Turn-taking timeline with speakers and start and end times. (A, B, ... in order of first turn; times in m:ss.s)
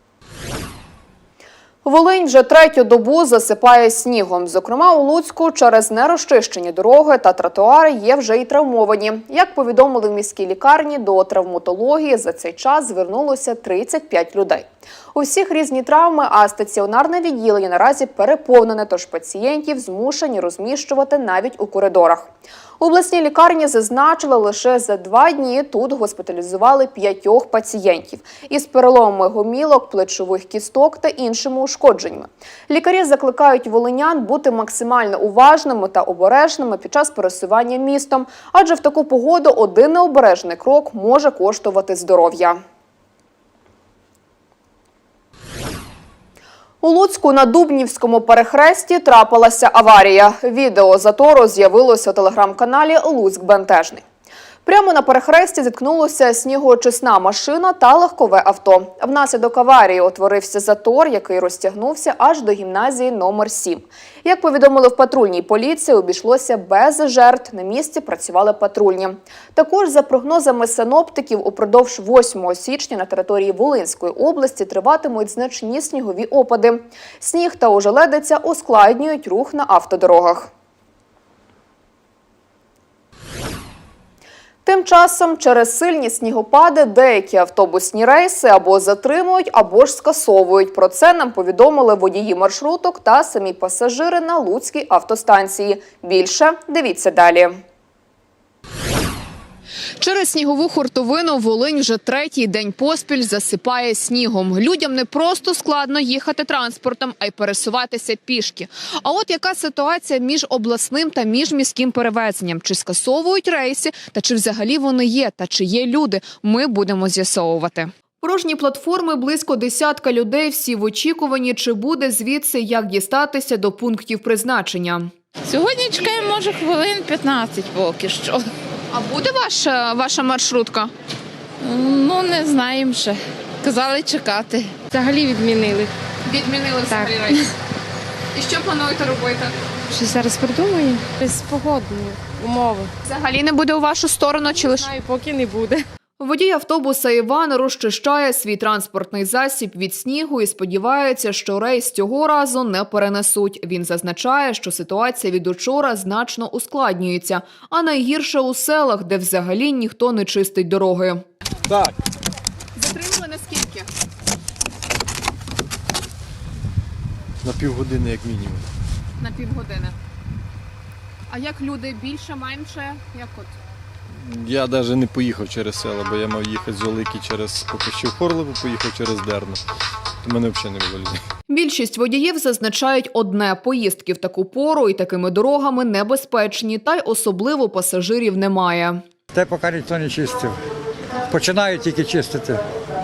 0:01.8-0:22.3 A
0:22.8-0:42.6 A
0:46.8-0:54.0 A
0:54.6-1:20.5 A
1:24.6-1:37.5 A
1:40.0-2:05.1 A
2:05.5-2:08.5 B
2:08.9-2:10.9 A
2:11.6-2:14.8 B
2:14.8-2:15.9 C
2:16.2-2:17.5 A
2:16.9-2:17.3 C
2:18.4-2:19.5 A
2:19.9-2:22.9 C
2:23.0-2:24.9 A
2:24.6-2:25.8 C
2:26.2-2:41.2 A
2:42.8-2:43.9 A
2:47.4-2:48.7 D
2:49.2-2:50.0 A
2:51.3-2:53.5 A
2:54.2-2:59.6 D
3:00.2-3:01.2 D
3:01.5-3:09.0 A
3:09.3-3:10.6 E
3:11.3-3:12.6 E